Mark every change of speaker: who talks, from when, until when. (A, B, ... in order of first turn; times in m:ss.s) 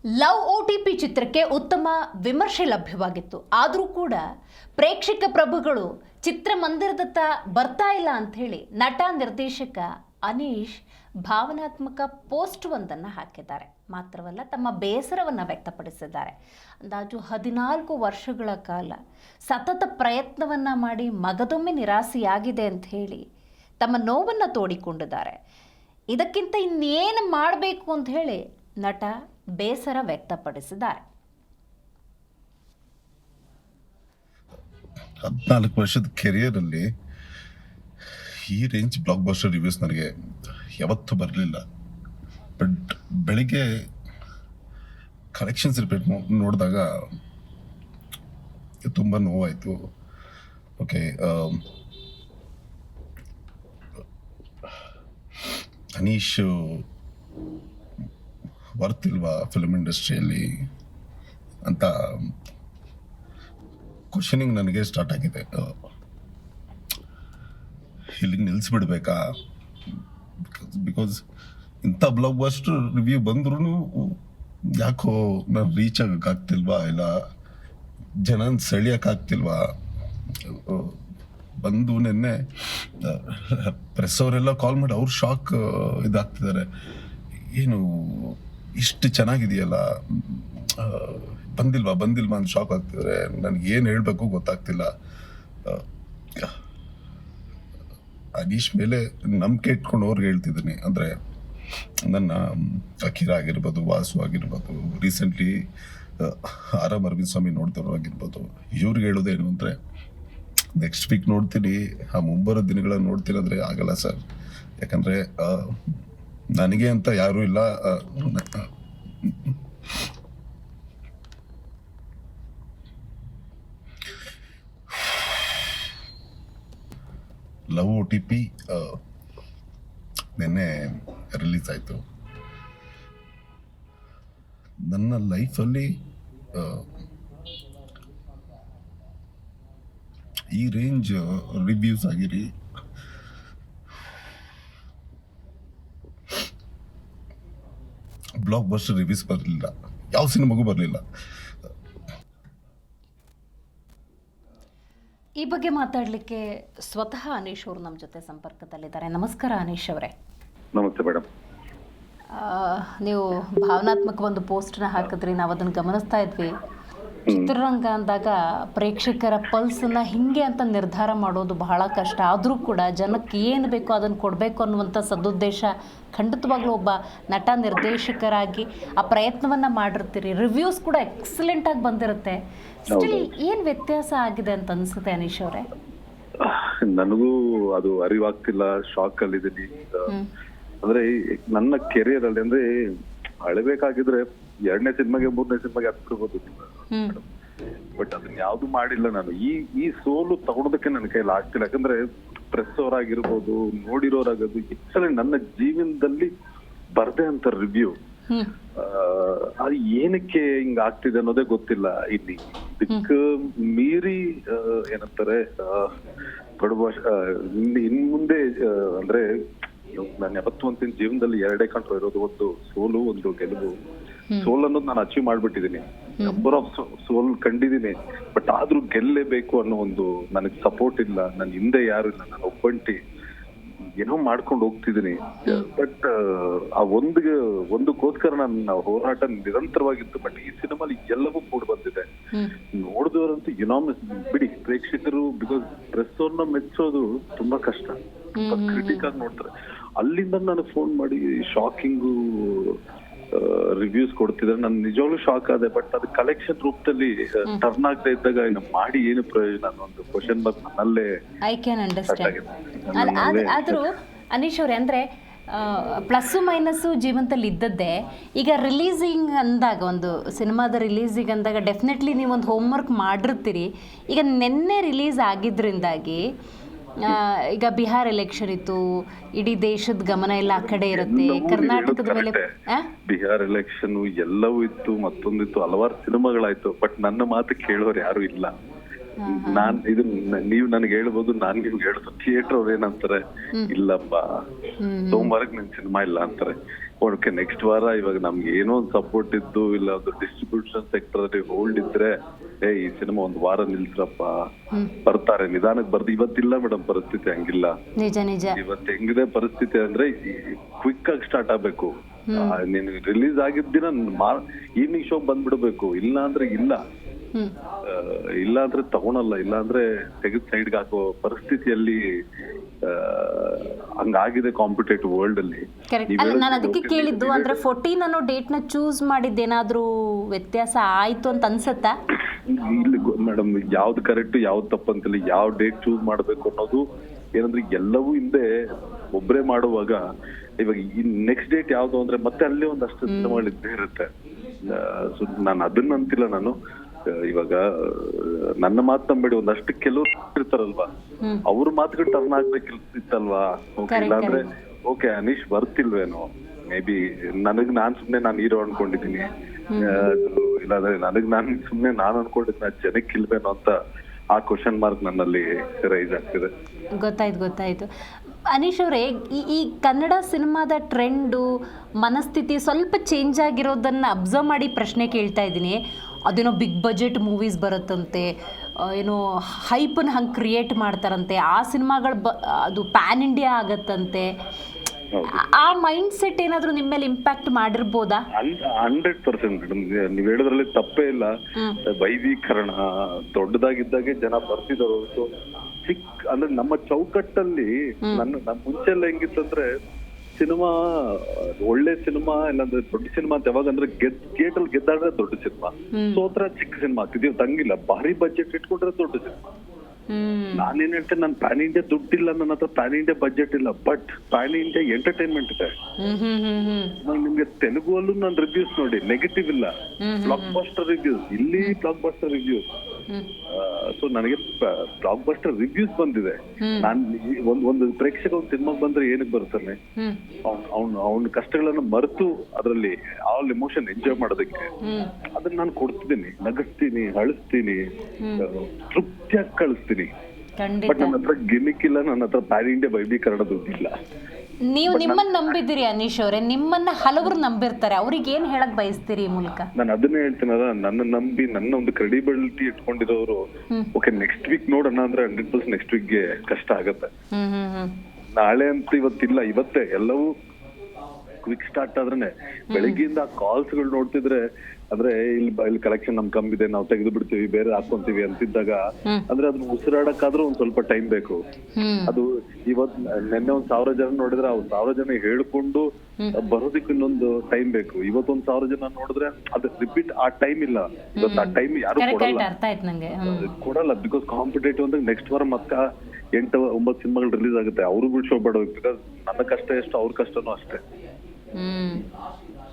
0:00.2-0:04.2 A
0:04.8-0:19.0 A
0:19.5-0:23.2 A
0:23.8-0:25.4 A
0:26.1-0:31.0 A
0:35.2-0:36.8 B
0:38.2-0:40.1 B
0:40.8-0:41.6 B
0:42.6-0:43.6 B
0:45.3-0:46.9 B
0:48.8-0:49.9 B
0:50.8-0:51.6 B
0:56.0-0:56.8 B
0:58.8-1:00.5 B
1:01.6-1:02.3 B
1:04.1-1:05.8 B
1:08.2-1:09.2 B
1:10.5-1:11.2 B
1:11.8-1:14.2 B
1:14.8-1:17.1 B
1:18.2-1:19.7 B
1:20.4-1:21.0 B
1:21.6-1:26.7 B
1:27.5-1:34.9 B
1:38.4-1:41.1 B
1:42.0-1:45.6 B
1:46.2-1:49.8 B
1:50.8-1:54.2 B
1:54.8-1:55.8 B
1:56.6-1:58.7 B
1:59.2-1:59.6 B
2:05.0-2:05.5 B
2:07.7-2:09.0 B
2:10.4-2:12.0 B
2:14.9-2:15.9 B
2:16.5-2:17.0 B
2:20.5-2:22.5 B
2:28.4-2:31.0 B
2:35.4-2:40.1 A
2:40.8-2:41.3 C
2:42.4-2:46.5 A
2:47.3-2:47.5 C
2:47.3-3:02.4 A
3:02.9-3:03.3 C
3:02.9-3:05.7 A
3:06.4-3:10.1 C
3:10.8-3:12.6 C
3:13.4-3:17.2 C
3:16.9-3:17.2 A
3:18.0-3:22.0 C
3:22.5-3:26.3 C
3:27.0-3:28.0 C
3:28.8-3:35.9 C
3:36.6-3:39.2 C
3:39.9-3:43.7 C
3:44.4-3:53.0 C
3:54.0-4:02.0 C
4:02.8-4:12.8 C
4:08.4-4:09.1 A
4:13.3-4:21.1 C
4:21.4-4:22.4 A
4:22.1-4:23.8 C
4:22.9-4:36.2 A
4:37.0-4:38.8 A
4:39.4-4:42.9 A
4:40.5-4:42.5 C
4:43.1-4:48.5 C
4:49.2-4:49.8 A
4:49.3-4:54.2 C
4:54.8-4:55.3 A
4:55.1-5:02.1 C
5:02.6-5:04.4 C
5:05.1-5:07.8 C
5:08.0-5:08.6 A
5:08.6-5:16.8 C
5:12.3-5:12.6 A
5:17.8-5:22.0 C
5:22.9-5:27.6 C
5:25.9-5:32.0 A
5:32.5-5:36.8 C
5:37.4-5:38.5 C
5:39.1-5:40.0 C
5:40.6-5:44.1 C
5:43.1-5:43.4 A
5:44.7-5:46.6 C
5:47.3-5:50.9 C
5:51.5-6:03.7 C
5:53.9-5:54.4 A
5:59.7-6:00.1 A
6:04.3-6:06.5 C
6:07.0-6:07.9 A
6:08.5-6:11.4 A
6:12.0-6:18.3 A
6:18.8-6:24.3 A
6:25.2-6:25.5 C
6:25.3-6:28.2 A
6:28.4-6:31.3 C
6:31.6-6:31.8 A
6:32.0-6:32.8 C
6:33.3-6:35.3 C
6:35.8-6:39.7 C
6:40.4-6:49.4 C
6:45.9-6:46.2 A
6:50.1-6:50.7 A
6:50.6-6:55.7 C
6:56.0-6:57.0 A
6:57.0-6:59.7 C
7:00.0-7:00.6 A
7:00.3-7:02.6 C
7:03.5-7:09.8 C
7:06.6-7:06.9 A
7:10.4-7:14.7 C
7:14.8-7:15.1 A
7:15.4-7:17.8 C
7:18.2-7:18.5 A
7:18.4-7:20.1 C
7:20.6-7:21.2 A
7:20.9-7:23.9 C
7:24.7-7:29.7 A
7:24.9-7:25.6 C
7:29.8-7:33.4 C
7:34.0-7:37.1 C
7:37.3-7:38.0 A
7:38.3-7:40.3 C
7:41.4-7:44.4 C
7:42.7-7:43.0 A
7:44.9-7:51.4 C
7:51.8-7:52.2 A
7:52.1-8:02.5 C
8:01.2-8:03.5 A
8:03.2-8:10.8 C
8:11.6-8:12.0 A